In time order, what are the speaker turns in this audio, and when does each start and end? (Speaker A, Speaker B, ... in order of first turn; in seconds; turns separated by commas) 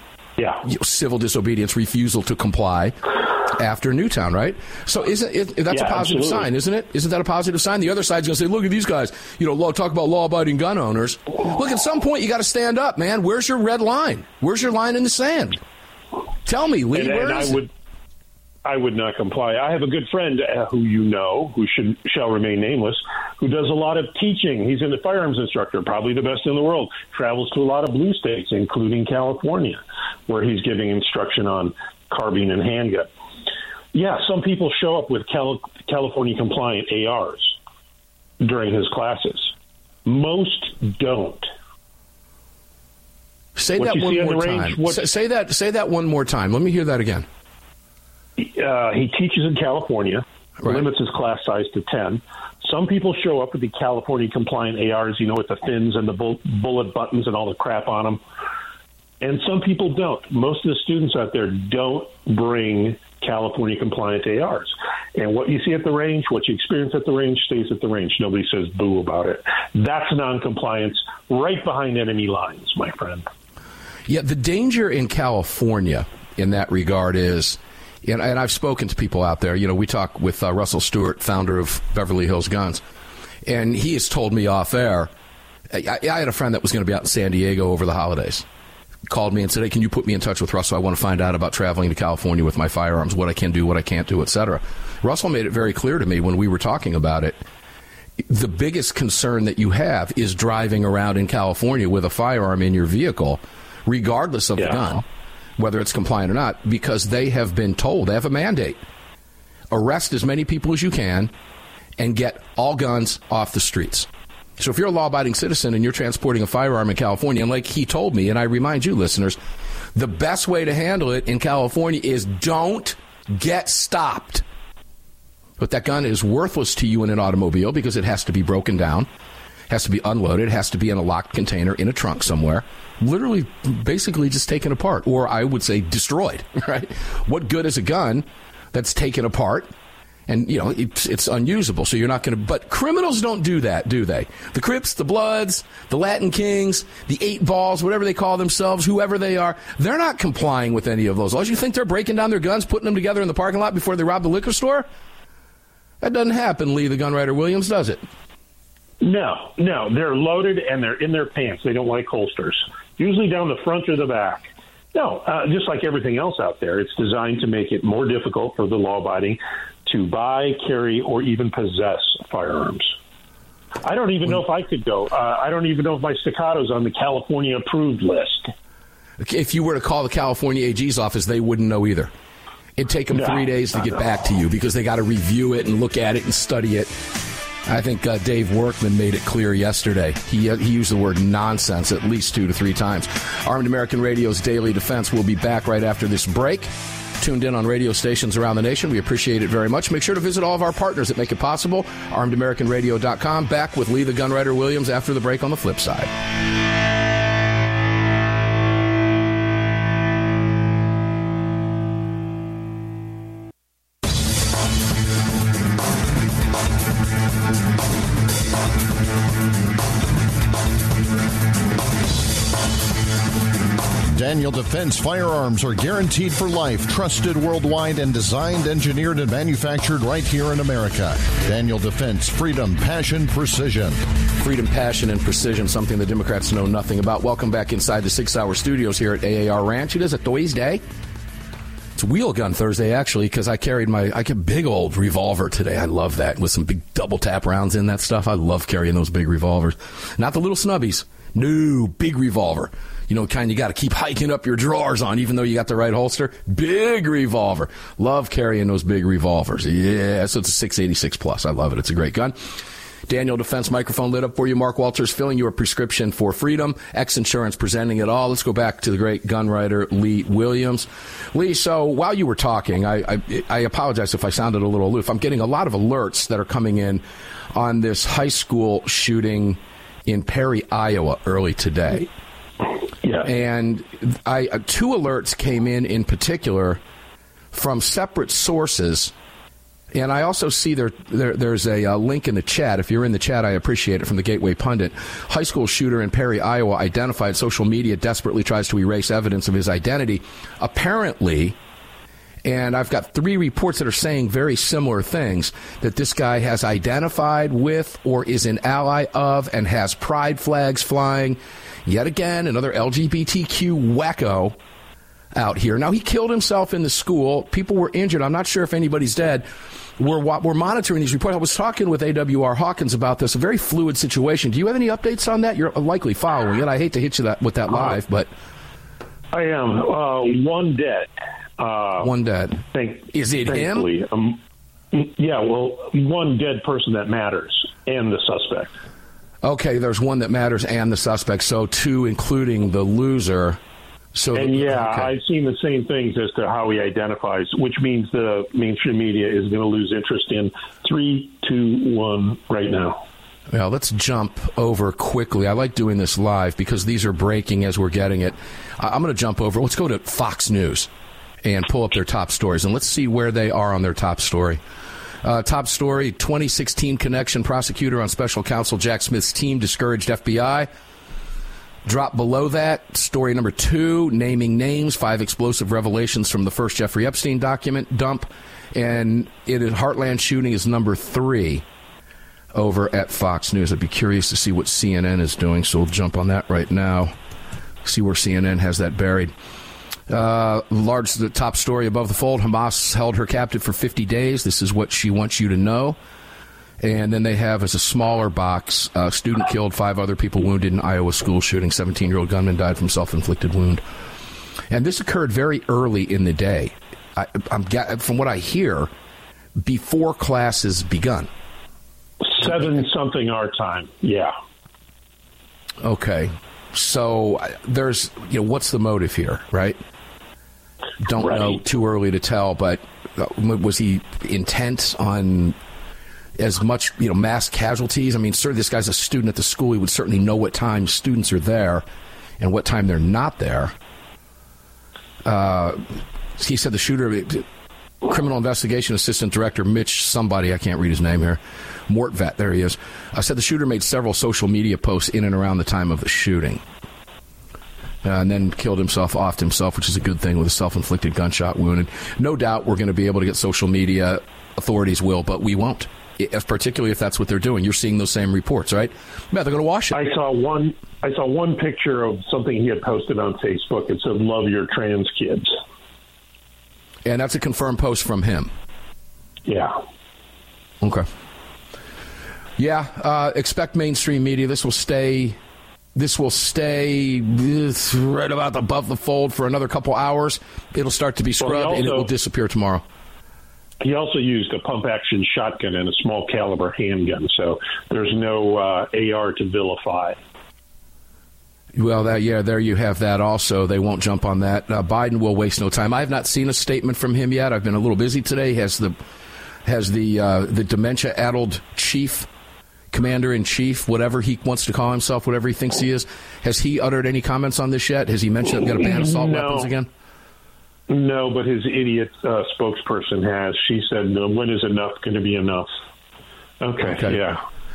Speaker A: 0.6-15.6, Speaker B: 5.7-6.5, Speaker A: 16.4-17.6, Speaker B: 16.9-17.7, Speaker B: 18.6-33.1, Speaker B: 33.9-37.6, Speaker B: 38.4-39.5, Speaker B: 40.0-41.5, Speaker A: 43.5-47.2, Speaker B: 43.8-45.0, Speaker B: 48.4-58.2, Speaker B: 59.2-73.3, Speaker A: 74.1-82.8, Speaker A: 83.4-85.1, Speaker A: 85.7-88.4, Speaker A: 89.1-97.4, Speaker A: 98.2-105.0, Speaker A: 105.6-108.8, Speaker A: 109.7-111.3, Speaker A: 112.0-119.4, Speaker A: 119.9-124.4, Speaker A: 125.6-129.1, Speaker A: 129.7-139.7, Speaker A: 140.3-154.9, Speaker A: 156.0-158.0, Speaker B: 159.0-172.9, Speaker B: 173.8-178.5, Speaker A: 179.2-182.1, Speaker A: 182.8-186.9, Speaker A: 187.7-206.1, Speaker C: 224.1-234.0, Speaker A: 234.4-240.8, Speaker A: 241.9-262.4, Speaker A: 263.1-282.1, Speaker A: 283.2-286.8, Speaker A: 287.5-289.1, Speaker A: 289.9-301.6, Speaker A: 302.4-314.6, Speaker A: 315.3-319.5, Speaker A: 320.0-328.3, Speaker B: 329.3-332.1, Speaker A: 332.0-333.9, Speaker B: 332.7-334.4, Speaker B: 334.9-338.7, Speaker A: 339.4-343.6, Speaker A: 344.1-345.1, Speaker B: 344.3-353.0, Speaker A: 353.5-360.9, Speaker A: 361.4-364.6, Speaker A: 365.2-370.7, Speaker A: 371.9-381.6, Speaker A: 382.5-387.1, Speaker A: 387.8-389.3, Speaker A: 390.1-396.0, Speaker A: 396.8-403.8, Speaker A: 404.7-408.9, Speaker A: 409.6-411.3, Speaker B: 412.2-414.3, Speaker A: 415.8-419.8, Speaker A: 421.0-425.6, Speaker A: 426.4-431.9, Speaker A: 432.4-433.7, Speaker A: 435.2-437.4, Speaker A: 438.0-446.6, Speaker A: 448.0-460.0, Speaker B: 459.9-465.6, Speaker A: 467.0-468.5, Speaker B: 469.4-469.8, Speaker A: 470.8-471.1, Speaker A: 472.6-475.4, Speaker A: 475.9-482.8, Speaker B: 481.4-482.1, Speaker B: 483.8-490.2, Speaker A: 491.8-498.9, Speaker A: 499.6-502.3, Speaker A: 502.9-509.9, Speaker B: 508.8-509.7, Speaker B: 510.9-515.7, Speaker B: 516.6-517.4, Speaker A: 516.8-517.2